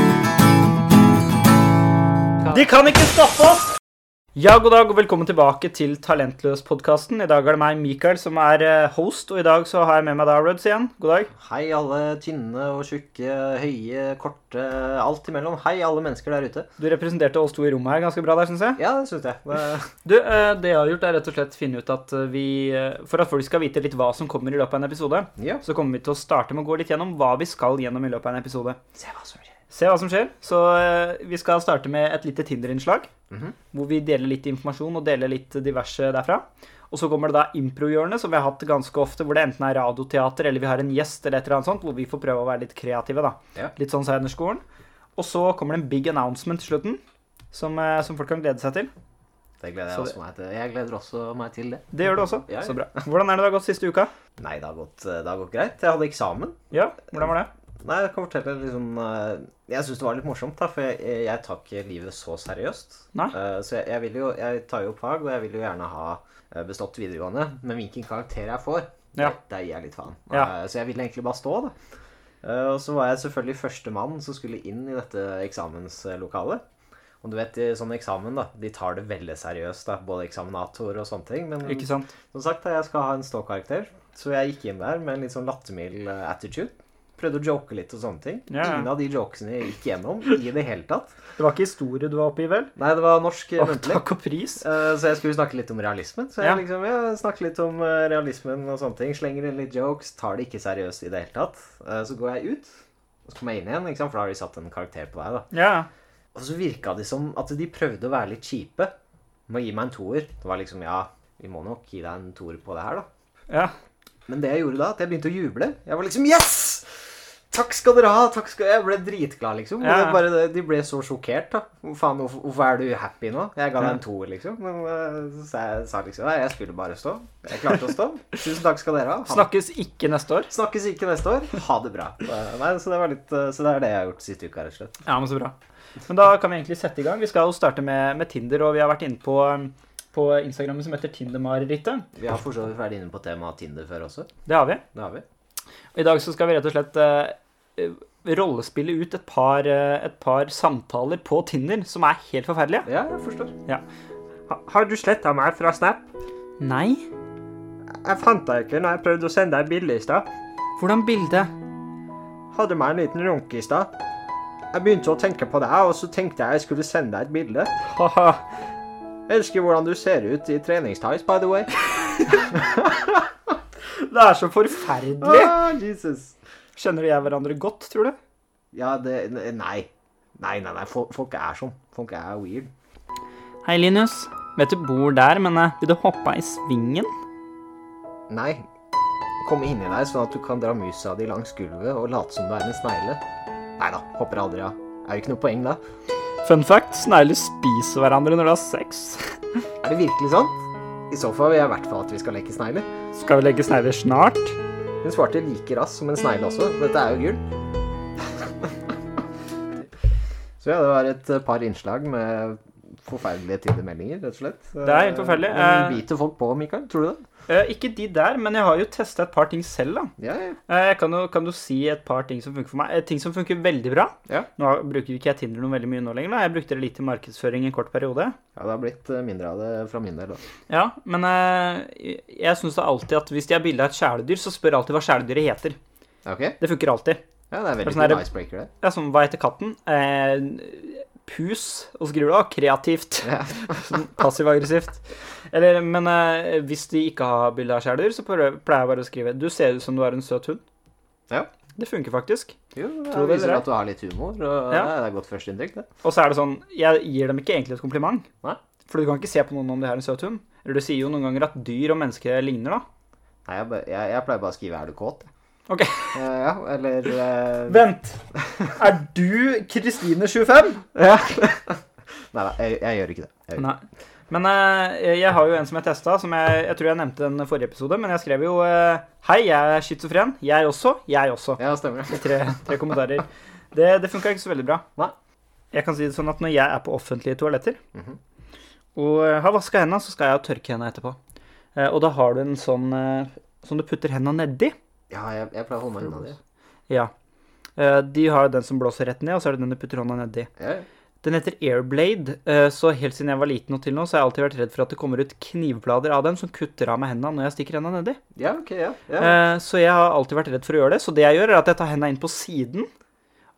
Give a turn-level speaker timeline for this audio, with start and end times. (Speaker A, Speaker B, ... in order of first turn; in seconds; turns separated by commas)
Speaker A: 2.4-3.7, Speaker A: 4.3-11.3, Speaker B: 11.4-16.7, Speaker A: 16.8-18.8, Speaker B: 18.8-19.9, Speaker A: 20.0-28.8, Speaker B: 25.4-25.6, Speaker B: 29.0-29.5, Speaker A: 29.7-33.1, Speaker B: 33.3-33.5, Speaker A: 33.7-44.6, Speaker A: 45.2-47.0, Speaker A: 47.5-48.9, Speaker B: 49.6-52.9, Speaker A: 51.9-54.1, Speaker B: 54.4-56.5, Speaker A: 56.7-57.5, Speaker B: 57.8-71.7, Speaker B: 72.4-76.6, Speaker B: 77.2-91.1, Speaker A: 81.6-82.1, Speaker A: 88.5-88.9, Speaker A: 91.4-92.7, Speaker B: 92.8-94.0, Speaker A: 93.6-94.6, Speaker B: 94.6-102.7, Speaker B: 103.3-105.5, Speaker A: 105.5-105.9, Speaker B: 106.3-108.9, Speaker B: 109.5-113.0, Speaker B: 114.3-129.5, Speaker A: 119.8-120.2, Speaker A: 129.3-130.5, Speaker B: 130.5-135.0, Speaker A: 135.0-135.5, Speaker A: 136.1-142.1, Speaker B: 142.2-144.3, Speaker A: 144.4-144.8, Speaker B: 144.9-145.2, Speaker A: 145.9-152.9, Speaker B: 152.8-153.5, Speaker A: 154.5-156.1, Speaker A: 156.6-157.1, Speaker B: 158.0-160.2, Speaker A: 160.8-161.5, Speaker B: 162.5-163.9, Speaker B: 164.7-167.8, Speaker A: 167.9-168.4, Speaker B: 169.3-171.7, Speaker A: 171.9-172.5, Speaker B: 172.3-173.2, Speaker A: 174.0-175.5, Speaker B: 175.2-176.3, Speaker A: 176.8-178.2, Speaker B: 178.7-182.7, Speaker A: 183.6-187.1, Speaker B: 188.3-188.6, Speaker B: 189.4-193.2, Speaker B: 193.8-195.8, Speaker A: 196.4-199.3, Speaker B: 199.8-200.5, Speaker B: 201.1-202.9, Speaker A: 203.1-204.6, Speaker B: 205.0-207.4, Speaker B: 208.2-208.7, Speaker B: 210.6-217.2, Speaker A: 214.8-216.0, Speaker A: 217.5-220.1, Speaker B: 220.2-220.6, Speaker A: 220.7-228.3, Speaker B: 228.6-230.4, Speaker A: 230.7-235.8, Speaker B: 236.2-236.6, Speaker A: 236.6-237.2, Speaker B: 237.5-238.7, Speaker A: 237.8-238.2, Speaker A: 238.8-250.6, Speaker B: 243.2-244.0, Speaker A: 251.8-252.5, Speaker B: 252.7-255.8, Speaker A: 253.1-253.6, Speaker A: 256.0-258.2, Speaker A: 258.9-262.8, Speaker B: 263.4-265.3, Speaker A: 265.7-266.2, Speaker B: 266.1-267.9, Speaker A: 267.7-270.8, Speaker B: 268.5-268.7, Speaker B: 270.9-271.8, Speaker B: 272.3-273.7, Speaker A: 273.6-284.8, Speaker B: 281.6-282.6, Speaker A: 285.7-287.8, Speaker A: 288.9-291.2, Speaker A: 291.8-294.7, Speaker B: 295.1-296.4, Speaker A: 297.8-300.5, Speaker B: 300.6-300.9, Speaker A: 301.2-308.2, Speaker B: 308.4-309.4, Speaker A: 309.2-312.9